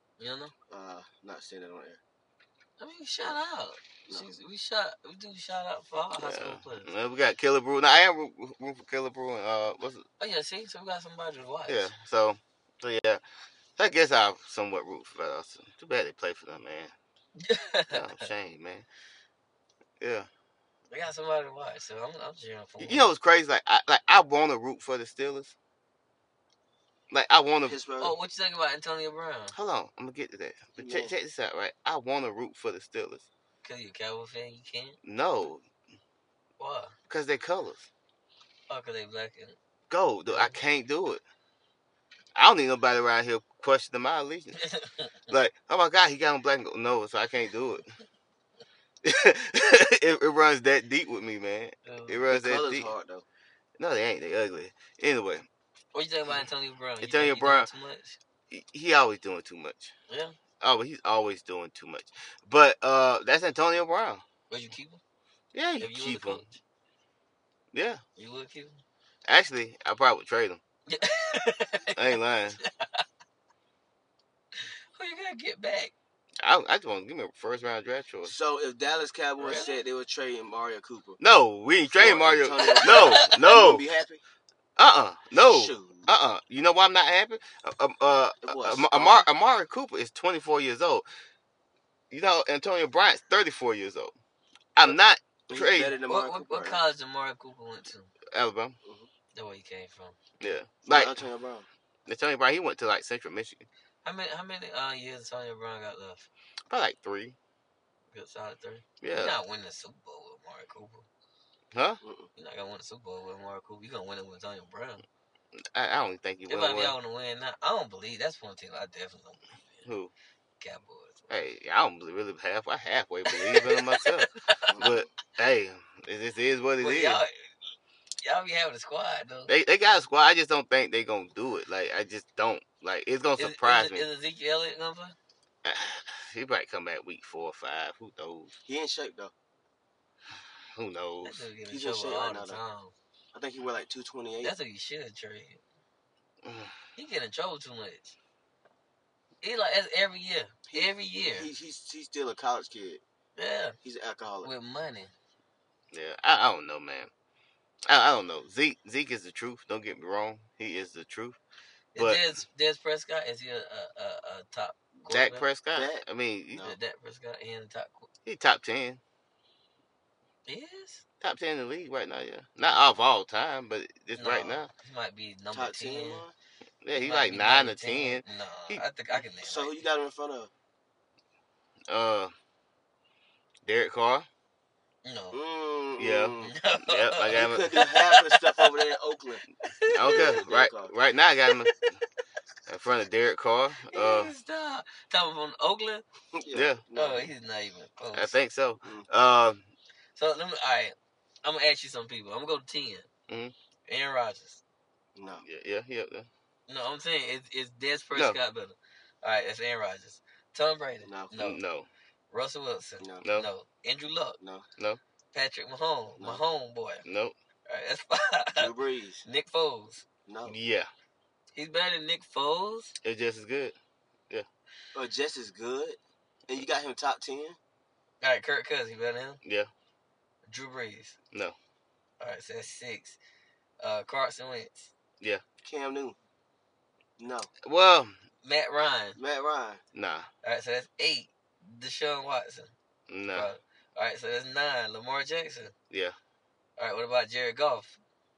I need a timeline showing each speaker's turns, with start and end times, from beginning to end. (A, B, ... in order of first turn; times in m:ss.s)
0:00.2-0:00.5 A
0:00.7-0:02.0 B
0:02.8-0:06.9 A
0:06.2-0:10.1 C
0:10.2-0:11.9 A
0:11.7-0:13.2 C
0:13.8-0:16.9 C
0:17.4-0:18.2 A
0:17.9-0:18.9 C
0:20.0-0:20.3 C
0:20.9-0:23.1 A
0:22.8-0:25.5 C
0:27.1-0:27.8 C
0:27.7-0:28.2 B
0:28.0-0:29.6 A
0:29.5-0:33.2 C
0:30.8-0:31.1 B
0:33.6-0:35.0 A
0:35.0-0:35.6 C
0:36.6-0:37.0 A
0:37.1-0:37.9 C
0:38.7-0:39.6 A
0:39.9-0:41.2 C
0:40.3-0:40.6 A
0:42.4-0:44.6 C
0:44.6-0:45.1 A
0:45.3-0:47.9 C
0:49.0-0:52.9 C
0:51.8-0:52.2 A
0:52.3-0:53.2 B
0:53.8-0:55.5 C
0:55.9-0:58.2 A
0:57.0-0:57.7 C
0:58.5-0:59.9 C
1:00.1-1:00.4 A
1:00.6-1:04.2 C
1:04.5-1:05.0 A
1:05.5-1:06.4 C
1:05.8-1:06.6 A
1:07.7-1:08.0 C
1:08.2-1:08.8 A
1:09.3-1:10.6 C
1:10.9-1:13.0 A
1:12.0-1:12.6 C
1:14.6-1:15.9 A
1:16.4-1:18.3 C
1:18.3-1:21.2 B
1:19.4-1:19.8 A
1:21.2-1:23.8 C
1:22.0-1:24.2 B
1:22.6-1:23.3 A
1:24.8-1:31.0 C
1:25.3-1:26.1 B
1:28.4-1:29.3 B
1:32.1-1:34.1 C
1:34.8-1:36.0 C
1:35.5-1:36.8 B
1:36.1-1:38.1 A
1:38.3-1:38.8 C
1:38.8-1:39.1 B
1:39.3-1:40.2 A
1:40.4-1:41.2 C
1:40.8-1:41.7 B
1:42.1-1:43.7 C
1:44.0-1:46.3 A
1:46.7-1:47.4 C
1:48.1-1:51.1 A
1:49.0-1:49.4 C
1:51.7-1:52.0 C
1:52.0-1:52.3 B
1:52.4-1:55.0 A
1:55.7-1:57.0 C
1:56.5-1:59.9 A
1:59.8-2:00.1 C
2:00.6-2:01.4 A
2:01.3-2:07.2 C
2:03.3-2:04.8 A
2:04.7-2:05.1 B
2:06.8-2:07.3 A
2:08.2-2:09.5 A
2:09.5-2:14.1 C
2:13.4-2:15.2 A
2:15.6-2:18.5 C
2:18.7-2:19.3 B
2:20.8-2:21.5 C
2:21.2-2:22.9 A
2:21.7-2:22.6 B
2:23.3-2:24.6 B
2:24.4-2:25.6 A
2:26.4-2:26.8 C
2:27.0-2:28.2 A
2:29.4-2:31.5 A
2:30.7-2:33.0 B
2:33.4-2:33.8 A
2:33.8-2:34.5 B
2:34.4-2:35.1 A
2:35.9-2:37.1 C
2:37.9-2:41.4 C
2:42.0-2:45.5 A
2:42.0-2:42.2 C
2:45.1-2:46.7 C
2:45.7-2:46.0 B
2:46.6-2:48.1 A
2:48.3-2:49.0 C
2:50.5-2:51.0 A
2:51.2-2:54.7 C
2:54.1-2:56.2 A
2:55.5-2:56.3 B
2:56.8-2:58.8 C
2:56.9-2:59.8 A
2:59.4-3:00.5 B
3:01.9-3:02.3 C
3:03.6-3:04.3 C
3:05.0-3:05.4 A
3:05.3-3:06.6 B
3:06.0-3:07.8 C
3:06.4-3:08.7 A
3:07.3-3:10.9 B
3:09.7-3:10.4 A
3:09.9-3:11.8 C
3:11.5-3:11.8 A
3:12.7-3:14.3 C
3:13.9-3:16.0 A
3:16.3-3:17.3 B
3:16.5-3:16.8 C
3:16.9-3:18.4 A
3:18.1-3:19.6 C
3:18.8-3:19.1 B
3:20.2-3:23.1 A
3:23.3-3:23.5 C
3:23.9-3:24.6 A
3:25.2-3:25.4 B
3:25.4-3:26.3 C
3:26.7-3:31.6 A
3:31.0-3:31.4 B
3:31.4-3:31.9 C
3:32.3-3:34.4 A
3:33.0-3:33.2 B
3:33.2-3:33.5 C
3:34.4-3:34.7 B
3:35.3-3:37.0 A
3:37.0-3:37.3 C
3:37.7-3:38.7 A
3:38.6-3:39.2 B
3:39.2-3:40.0 A
3:40.3-3:40.6 B
3:40.5-3:40.9 C
3:41.6-3:43.0 A
3:43.0-3:43.8 C
3:44.9-3:47.6 B
3:48.2-3:49.4 A
3:49.4-3:49.7 C
3:50.5-3:51.2 A
3:52.2-3:53.2 A
3:53.8-3:54.9 A
3:55.6-3:56.2 B
3:57.2-3:57.5 B
3:57.6-3:58.1 C
3:58.4-3:59.2 A
3:59.2-3:59.8 B
3:59.9-4:00.3 C
4:00.4-4:02.7 A
4:03.1-4:03.5 C
4:03.3-4:05.7 A
4:05.9-4:06.2 C
4:06.8-4:08.0 A